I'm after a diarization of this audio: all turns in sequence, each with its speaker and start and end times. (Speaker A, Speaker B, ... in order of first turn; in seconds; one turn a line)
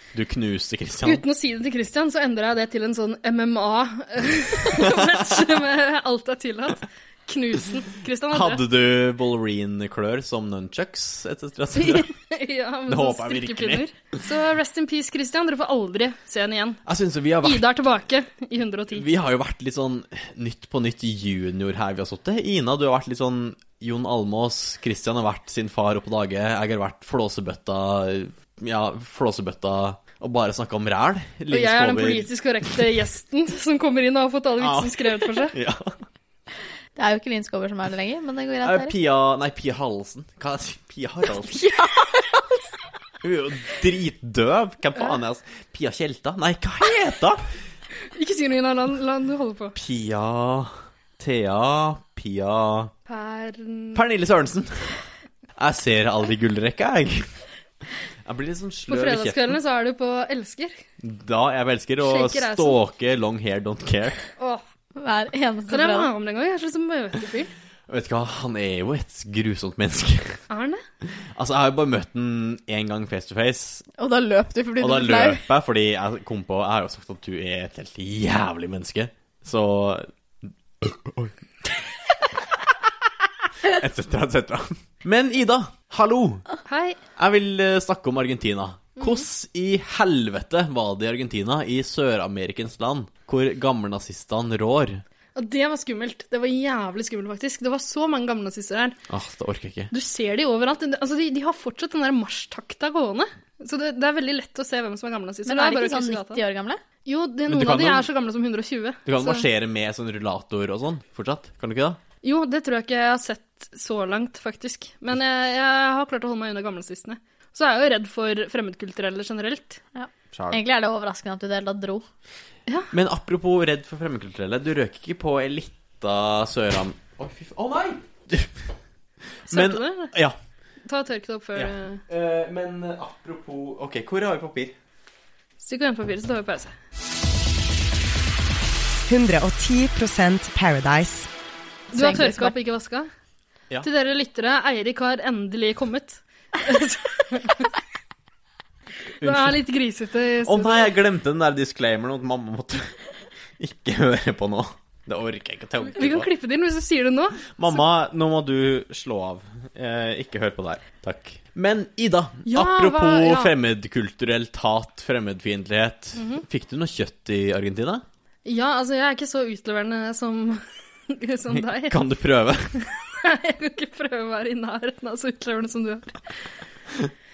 Speaker A: 0.1-1.2
Speaker B: 1.0-8.6
Speaker A: 4.7-5.2
Speaker A: 8.3-12.1
Speaker B: 11.8-16.8
Speaker A: 12.9-13.8
Speaker A: 16.9-17.7
Speaker B: 17.4-19.0
Speaker A: 18.9-32.3
Speaker B: 31.5-35.5
Speaker A: 34.6-36.0
Speaker C: 37.0-38.9
Speaker A: 38.6-41.6
Speaker C: 41.5-42.5
Speaker A: 43.2-47.5
Speaker B: 48.1-49.8
Speaker A: 49.8-52.9
Speaker B: 53.1-54.0
Speaker A: 53.9-55.0
Speaker A: 55.6-57.3
Speaker A: 58.2-59.6
Speaker B: 58.9-60.8
Speaker A: 61.0-64.2
Speaker B: 62.0-62.8
Speaker B: 64.4-64.6
Speaker C: 65.0-66.1
Speaker B: 65.7-67.5
Speaker A: 67.9-70.4
Speaker B: 70.5-70.8
Speaker A: 71.0-73.8
Speaker C: 74.0-75.4
Speaker A: 74.8-81.3
Speaker A: 83.6-86.4
Speaker B: 86.7-87.0
Speaker A: 87.2-95.0
Speaker B: 95.3-99.0
Speaker A: 99.1-99.9
Speaker B: 99.9-106.4
Speaker C: 105.5-106.8
Speaker B: 107.0-109.4
Speaker A: 107.5-108.1
Speaker A: 109.0-112.0
Speaker B: 112.2-119.8
Speaker C: 119.9-122.0
Speaker A: 120.3-120.6
Speaker A: 122.9-128.6
Speaker A: 129.5-130.4
Speaker B: 129.5-130.1
Speaker B: 130.8-132.0
Speaker A: 131.6-134.7
Speaker B: 135.6-136.7
Speaker D: 139.1-141.3
Speaker B: 141.9-143.1
Speaker C: 142.0-142.3
Speaker B: 143.8-147.7
Speaker A: 149.2-149.6
Speaker B: 149.2-150.9
Speaker A: 150.4-152.9
Speaker A: 153.6-156.3
Speaker B: 155.9-157.8
Speaker A: 157.6-168.0
Speaker B: 162.4-163.5
Speaker B: 166.2-166.4
Speaker B: 168.4-172.0
Speaker A: 171.5-172.8
Speaker B: 173.2-176.2